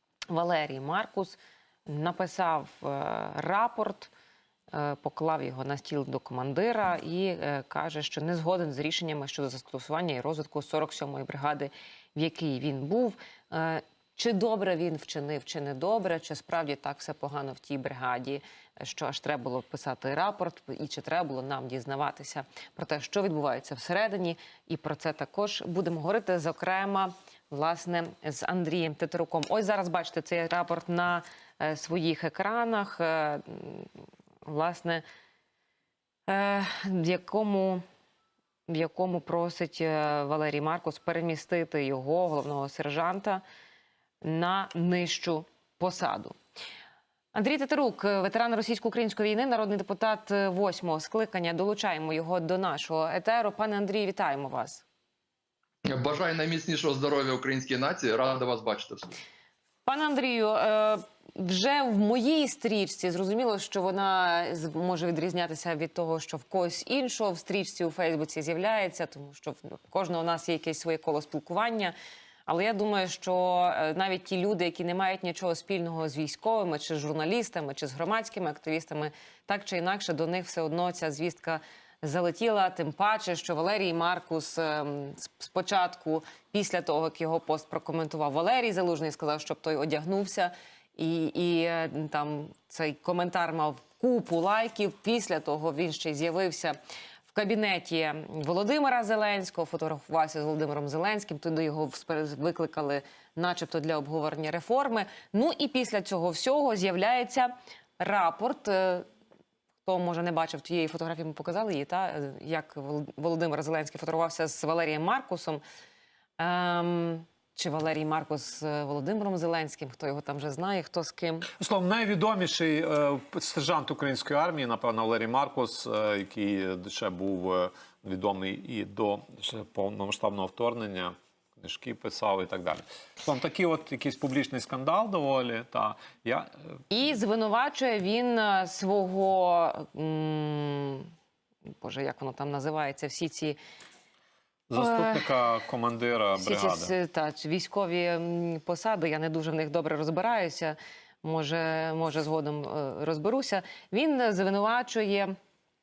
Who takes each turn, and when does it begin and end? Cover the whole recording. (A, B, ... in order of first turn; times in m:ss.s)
0:00.3-0:04.1 A
0:04.7-0:33.9 A
0:34.4-0:35.0 A
0:36.3-0:37.8 A
0:38.7-0:43.4 A
0:44.2-0:46.4 A
0:47.3-0:54.8 A
0:55.8-0:59.1 B
0:59.8-1:11.9 A
1:12.5-1:36.8 A
1:37.3-1:49.0 A
1:49.8-1:55.6 A
1:56.4-2:01.5 A
2:01.6-2:16.5 C
2:16.9-2:21.1 A
2:21.8-2:23.6 A
2:24.7-2:26.9 C
2:24.8-2:25.3 A
2:26.4-2:35.3 A